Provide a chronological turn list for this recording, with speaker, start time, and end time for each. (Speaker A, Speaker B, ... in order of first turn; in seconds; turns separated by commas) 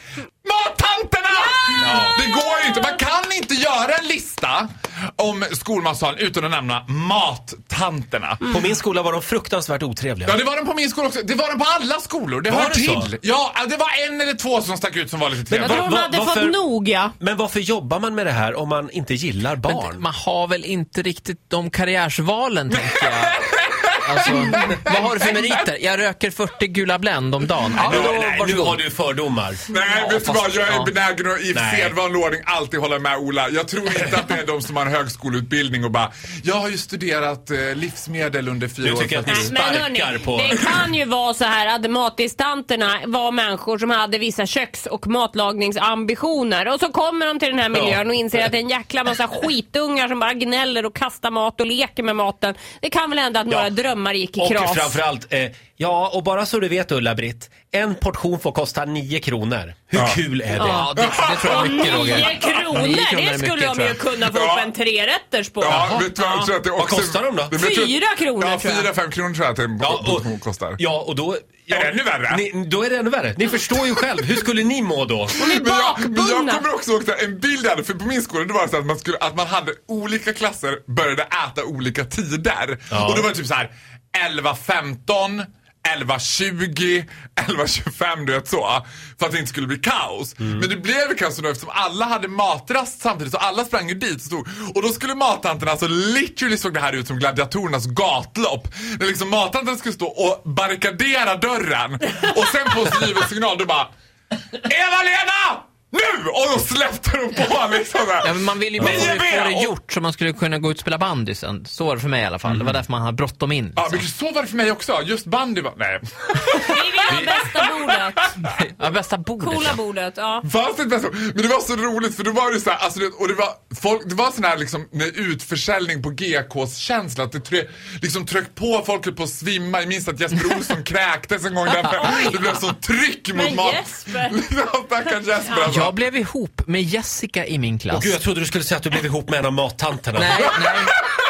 Speaker A: 0.4-8.4, Speaker B: 1.8-2.2, Speaker B: 8.4-10.4, Speaker A: 10.2-15.9, Speaker B: 12.5-13.1, Speaker B: 15.5-16.6, Speaker C: 15.6-17.1, Speaker B: 17.2-20.1, Speaker D: 19.7-23.4, Speaker A: 22.7-25.6, Speaker D: 24.0-28.8, Speaker B: 27.8-30.5, Speaker A: 27.9-28.1, Speaker A: 29.7-39.5, Speaker D: 30.1-30.9, Speaker B: 31.5-32.0, Speaker B: 38.8-40.6, Speaker C: 39.3-55.0, Speaker B: 47.7-48.5, Speaker B: 54.4-60.9, Speaker A: 59.9-60.2, Speaker C: 60.6-66.5, Speaker D: 60.6-64.0, Speaker A: 61.0-62.0, Speaker A: 64.3-64.7, Speaker A: 65.6-70.8, Speaker B: 65.7-66.1, Speaker B: 66.7-67.5, Speaker C: 67.5-68.9, Speaker B: 69.8-75.4, Speaker A: 71.7-72.5, Speaker A: 73.7-74.3, Speaker A: 75.3-103.9, Speaker C: 75.4-76.7, Speaker B: 82.9-83.3, Speaker A: 104.6-109.8, Speaker D: 108.2-114.0, Speaker A: 113.8-117.7, Speaker C: 116.5-118.3, Speaker D: 118.4-119.8, Speaker C: 119.4-120.5, Speaker A: 120.4-135.9, Speaker D: 131.8-132.4, Speaker C: 132.0-132.5, Speaker C: 133.3-134.4, Speaker D: 135.7-138.2, Speaker B: 137.9-140.5, Speaker D: 140.2-140.9